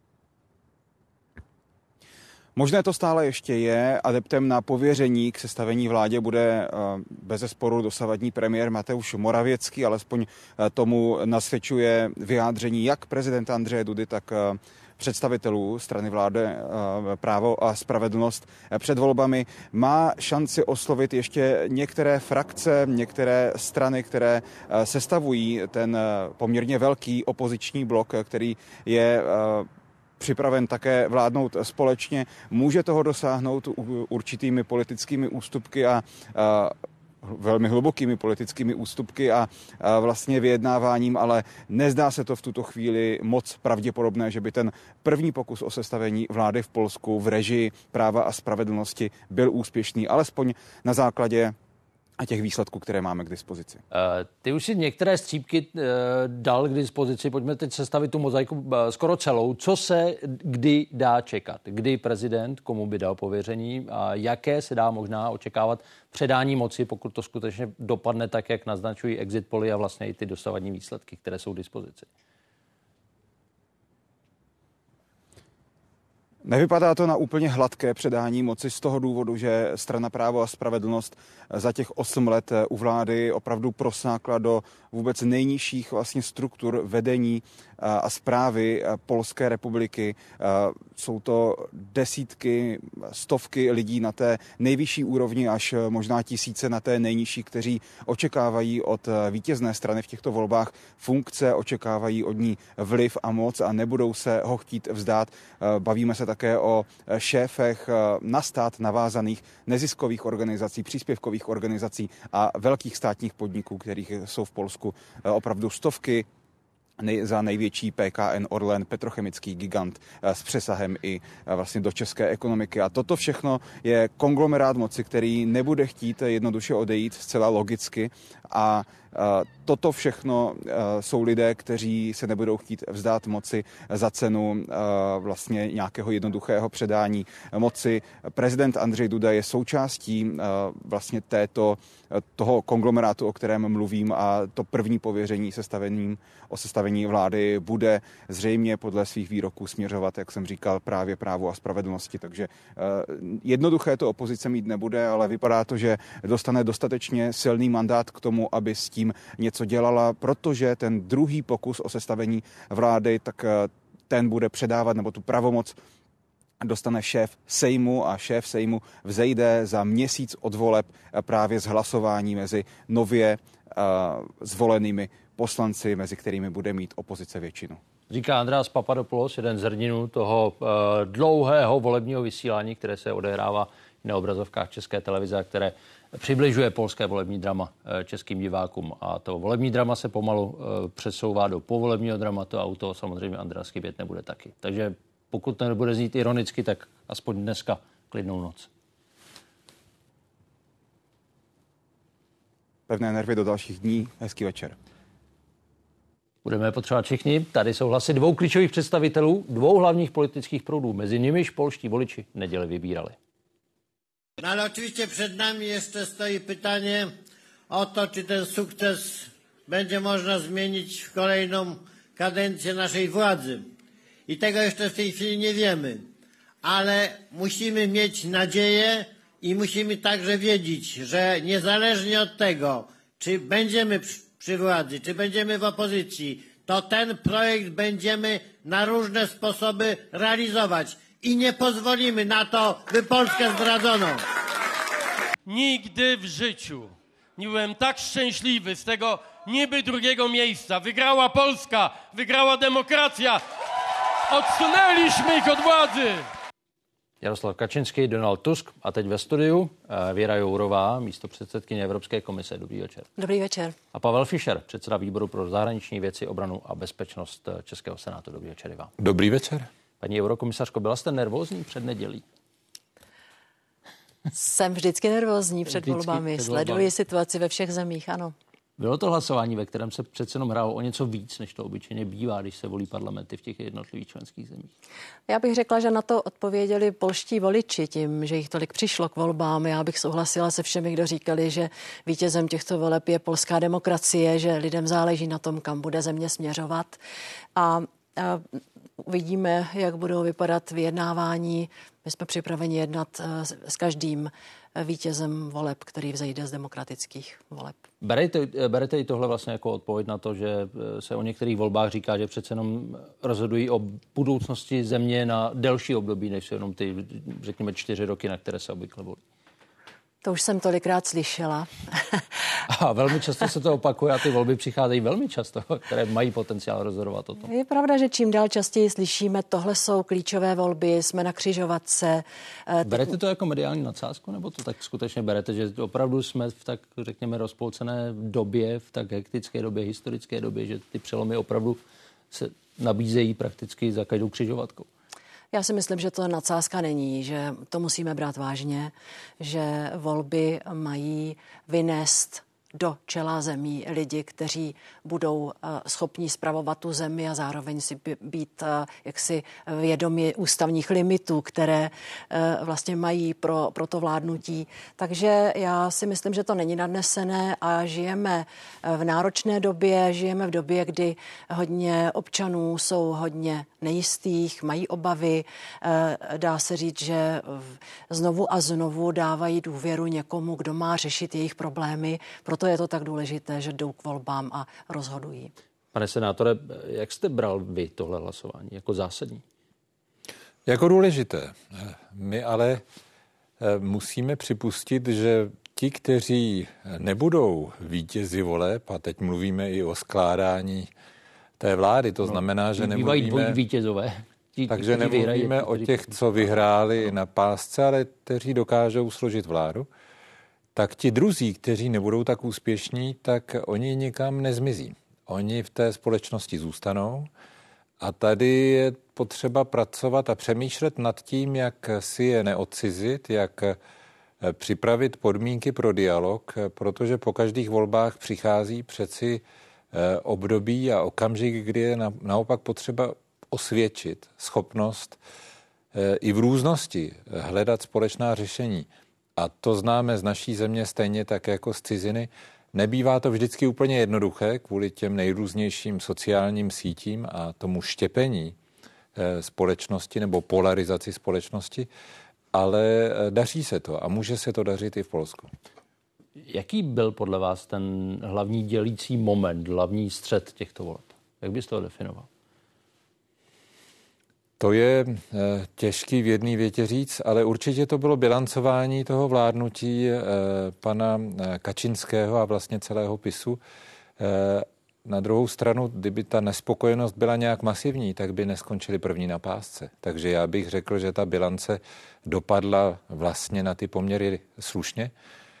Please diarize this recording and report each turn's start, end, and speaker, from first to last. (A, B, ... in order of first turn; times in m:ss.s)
0:02.6-0:29.7 A
0:30.2-0:51.5 A
0:52.2-0:53.8 A
0:53.9-1:12.1 B
1:16.4-1:56.2 A
1:57.0-2:45.8 A
2:46.6-2:57.8 A
2:58.1-3:18.7 B
3:22.9-3:24.8 A
3:26.4-3:33.1 B
3:34.4-3:37.1 C
3:37.7-3:43.7 C
3:44.3-3:46.1 C
3:46.6-4:04.2 C
4:05.4-4:13.4 D
4:14.3-4:16.3 D
4:17.2-4:23.1 B
4:23.2-4:23.8 E
4:23.9-4:28.9 B
4:29.0-4:29.7 F
4:30.0-4:32.2 B
4:34.3-4:38.3 E
4:35.7-4:36.9 B
4:38.8-4:44.7 B
4:45.3-4:57.0 E
4:57.6-4:58.4 E
4:59.0-5:07.8 E
5:08.0-5:19.2 B
5:20.2-5:22.2 E
5:22.7-5:27.5 B
5:27.4-5:33.1 E
5:32.8-5:41.8 B
5:42.3-5:44.9 B
5:45.5-6:25.5 E
6:25.9-6:29.4 B
6:30.6-6:32.8 F
6:33.6-6:40.9 F
6:41.6-6:43.6 F
6:42.2-6:46.4 B
6:44.7-6:49.9 F
6:50.7-6:57.3 F
6:58.0-7:03.8 F
7:04.4-7:15.2 F
7:15.9-7:28.6 F
7:29.2-7:31.9 F
7:32.5-7:35.5 F
7:36.5-7:42.3 B
7:44.6-7:53.6 F
7:54.2-8:05.1 F